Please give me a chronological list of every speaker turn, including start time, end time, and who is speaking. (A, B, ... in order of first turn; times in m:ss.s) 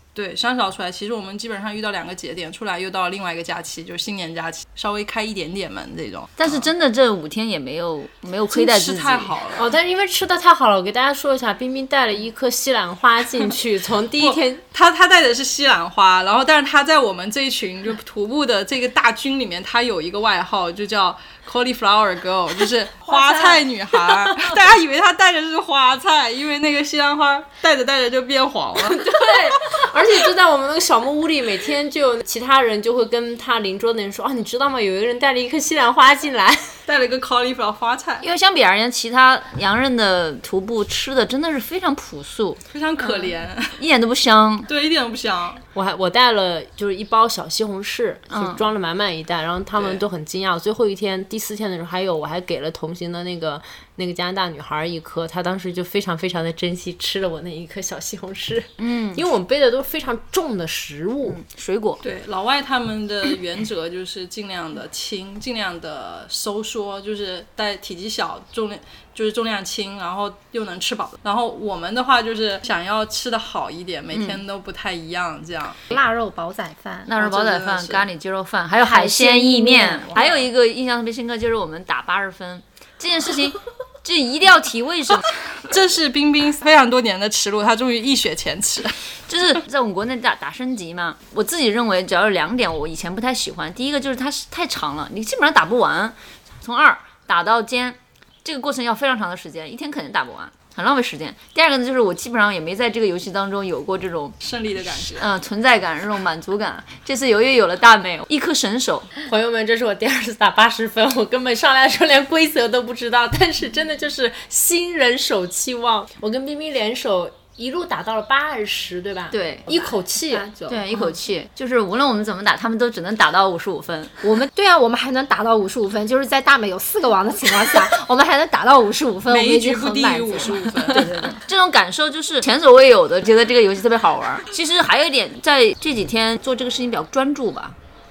0:00.2-0:06.7 A
0:06.4-0:09.3 B
0:08.5-0:09.7 A
0:09.6-0:14.6 C
0:14.2-0:29.4 A
0:28.9-0:36.8 C
0:36.9-0:38.3 A
0:38.2-0:42.6 B
0:42.7-0:43.8 A
0:43.8-0:44.7 B
0:44.7-0:45.6 A
0:45.7-1:01.4 C
0:48.3-0:48.6 B
0:49.8-0:50.0 A
0:58.8-0:59.2 B
1:01.3-1:02.0 B
1:02.0-1:15.8 A
1:14.1-1:14.4 B
1:15.9-1:17.1 D
1:17.1-1:25.4 B
1:17.2-1:18.1 A
1:18.8-1:20.2 D
1:20.2-1:20.5 A
1:25.7-1:29.0 A
1:29.3-1:44.4 B
1:44.4-1:45.3 A
1:45.2-1:49.1 B
1:49.2-2:00.5 C
1:59.3-1:59.7 B
2:00.3-2:00.9 D
2:00.7-2:04.2 B
2:04.2-2:11.4 D
2:09.3-2:11.1 A
2:11.5-2:17.8 B